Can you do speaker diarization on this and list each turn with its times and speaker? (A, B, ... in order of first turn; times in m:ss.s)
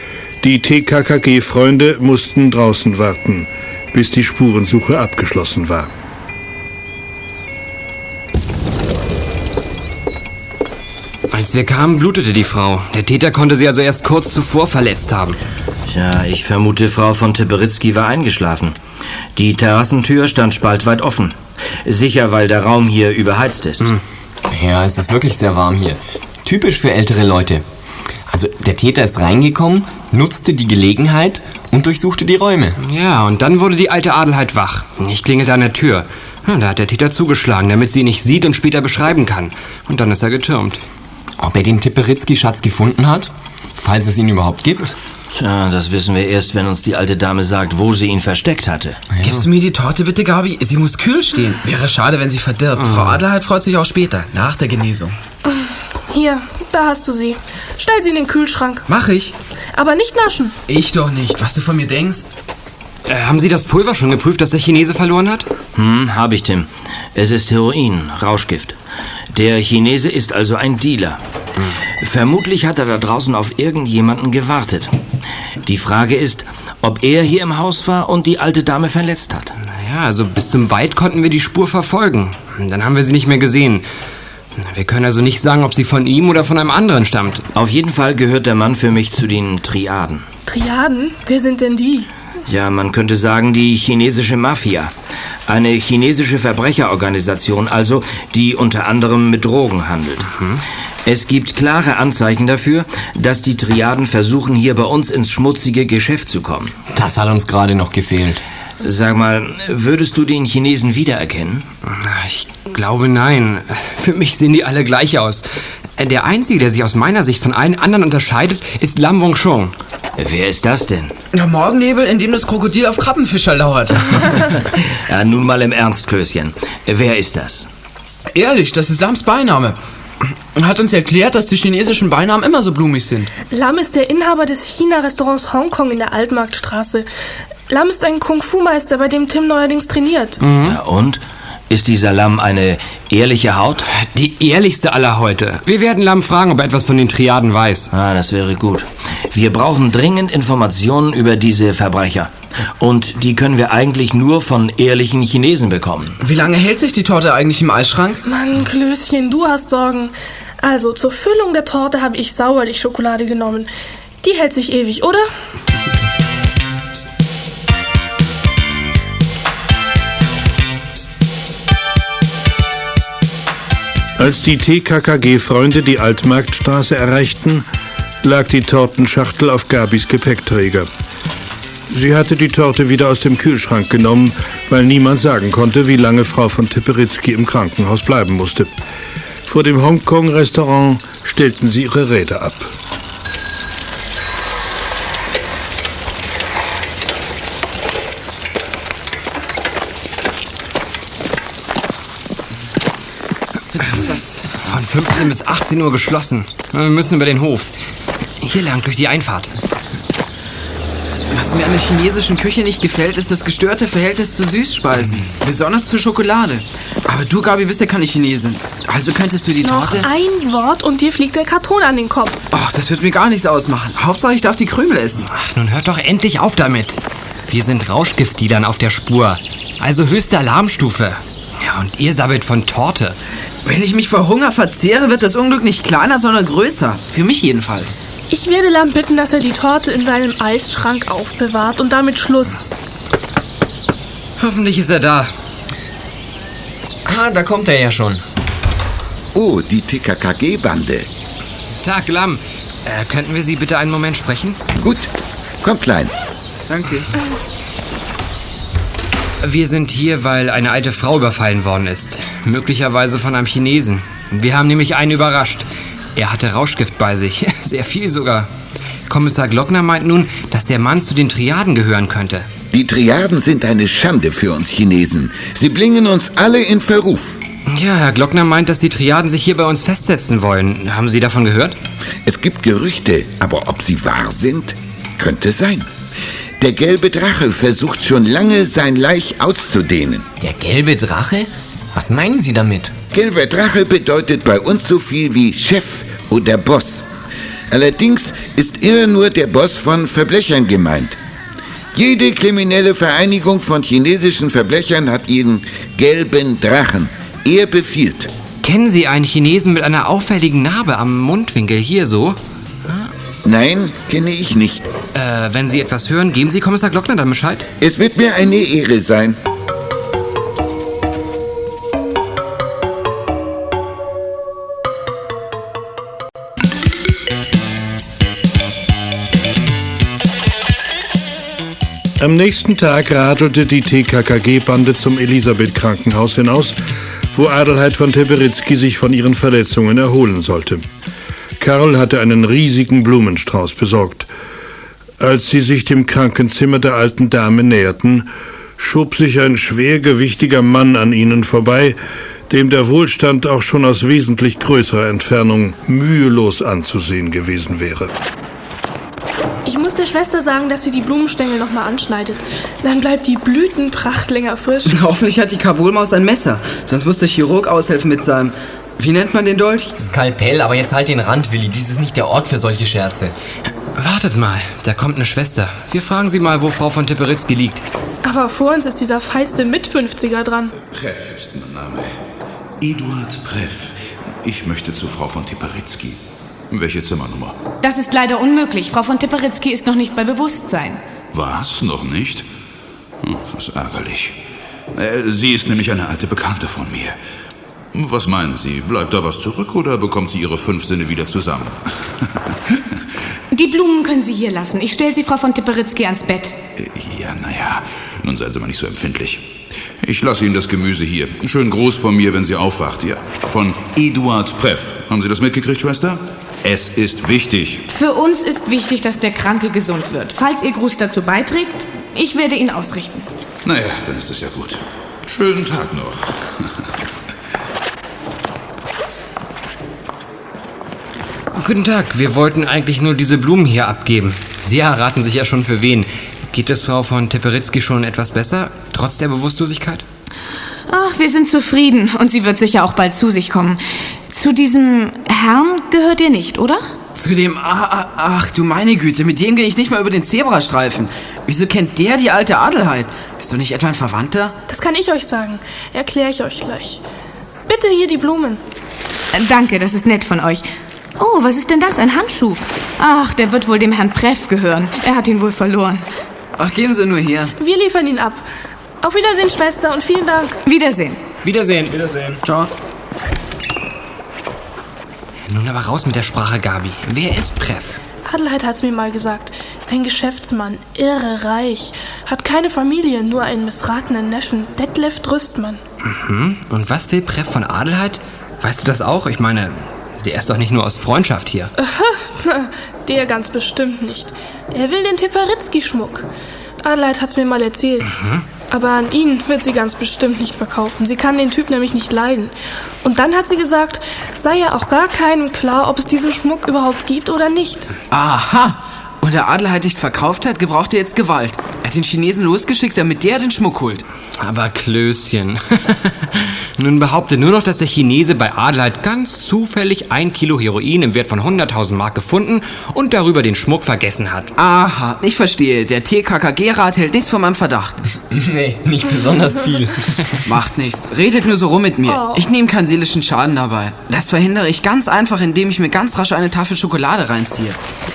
0:00.4-0:05.9 A
0:11.3-0:15.4 B
0:15.9-0:18.8 C
0:19.4-0:23.9 C
0:24.5-0:27.6 D
0:28.3-0:32.8 D
0:32.8-0:40.8 B
0:41.4-0:44.9 D
0:45.3-0:49.0 C
0:49.2-0:49.4 D
0:49.2-0:55.2 E
0:55.4-0:58.9 F
0:58.9-0:59.3 E
0:59.7-1:00.6 F
1:00.7-1:02.3 E
1:03.1-1:05.5 B
1:05.7-1:08.8 C
1:09.3-1:11.2 C
1:12.0-1:15.0 C
1:15.6-1:19.5 C
1:19.6-1:23.9 B
1:24.6-1:27.5 B
1:27.6-1:30.3 C
1:30.5-1:32.1 F
1:32.5-1:34.9 C
1:35.5-1:40.3 C
1:41.0-1:46.8 C
1:46.9-1:48.4 D
1:48.8-1:51.7 C
1:51.8-1:59.8 B
2:00.2-2:01.1 C
2:01.3-2:04.5 E
2:05.1-2:07.7 C
2:08.3-2:09.8 E
2:10.3-2:13.3 E
2:13.5-2:17.1 F
2:17.7-2:20.4 F
2:20.4-2:20.8 B
2:20.6-2:23.8 C
2:23.9-2:27.9 B
2:27.9-2:36.2 C
2:36.2-2:38.2 E
2:38.2-2:43.7 F
2:44.2-2:45.3 F
2:54.2-2:57.7 A
2:58.2-3:00.9 A
3:01.9-3:08.7 A
3:09.4-3:12.8 A
3:23.8-3:24.6 E
3:24.6-3:27.7 B
3:28.4-3:29.5 B
3:31.3-3:40.1 E
3:39.6-3:42.5 F
3:42.5-3:45.3 E
3:45.2-3:53.2 B
3:53.6-3:58.0 E
3:58.3-4:02.7 F
4:04.4-4:05.3 B
4:07.1-4:08.2 D
4:09.4-4:11.1 G
4:11.8-4:14.6 B
4:14.8-4:15.1 G
4:15.6-4:16.1 G
4:16.7-4:17.1 E
4:19.4-4:28.5 B
4:29.1-4:32.5 B
4:32.7-4:37.4 G
4:37.7-4:41.8 B
4:42.3-4:45.9 G
4:46.6-4:50.3 G
4:50.4-4:52.9 D
4:53.1-4:57.0 G
4:57.7-5:01.2 G
5:01.9-5:08.3 G
5:08.6-5:13.1 B
5:13.4-5:14.8 G
5:15.1-5:17.7 B
5:17.8-5:19.4 G
5:32.2-5:40.8 A
5:41.6-5:44.3 A
5:45.2-5:52.0 A
5:52.5-5:58.1 A
5:59.6-6:05.0 F
6:04.9-6:10.0 E
6:10.0-6:13.3 D
6:14.0-6:17.8 B
6:18.2-6:20.7 F
6:20.8-6:22.1 H
6:22.8-6:26.2 H
6:26.7-6:27.6 H
6:27.8-6:31.0 I
6:31.3-6:32.4 H
6:33.2-6:34.4 H
6:34.9-6:37.2 H
6:37.9-6:42.8 H
6:43.5-6:46.6 I
6:46.8-6:49.5 H
6:50.0-6:57.9 H
6:57.9-7:03.3 I
7:03.6-7:06.9 H
7:11.6-7:20.0 B
7:20.9-7:26.9 I
7:27.2-7:34.6 E
7:34.7-7:37.0 F
7:37.7-7:38.6 F
7:39.3-7:40.7 I
7:41.2-7:46.0 I
7:46.6-7:47.6 E
7:47.6-7:48.5 F
7:49.0-7:50.6 F
7:50.7-7:51.2 I
7:51.4-7:52.1 B
7:52.4-7:52.7 E
7:55.5-7:58.0 B
7:58.3-8:05.8 F
8:06.0-8:11.7 B
8:11.8-8:16.3 F
8:16.8-8:18.1 F
8:18.1-8:18.4 B
8:18.7-8:27.9 F
8:28.1-8:34.0 E
8:34.4-8:44.5 B
8:44.6-8:48.0 E
8:48.3-8:50.3 D
8:50.4-8:57.8 E
8:52.0-8:52.5 F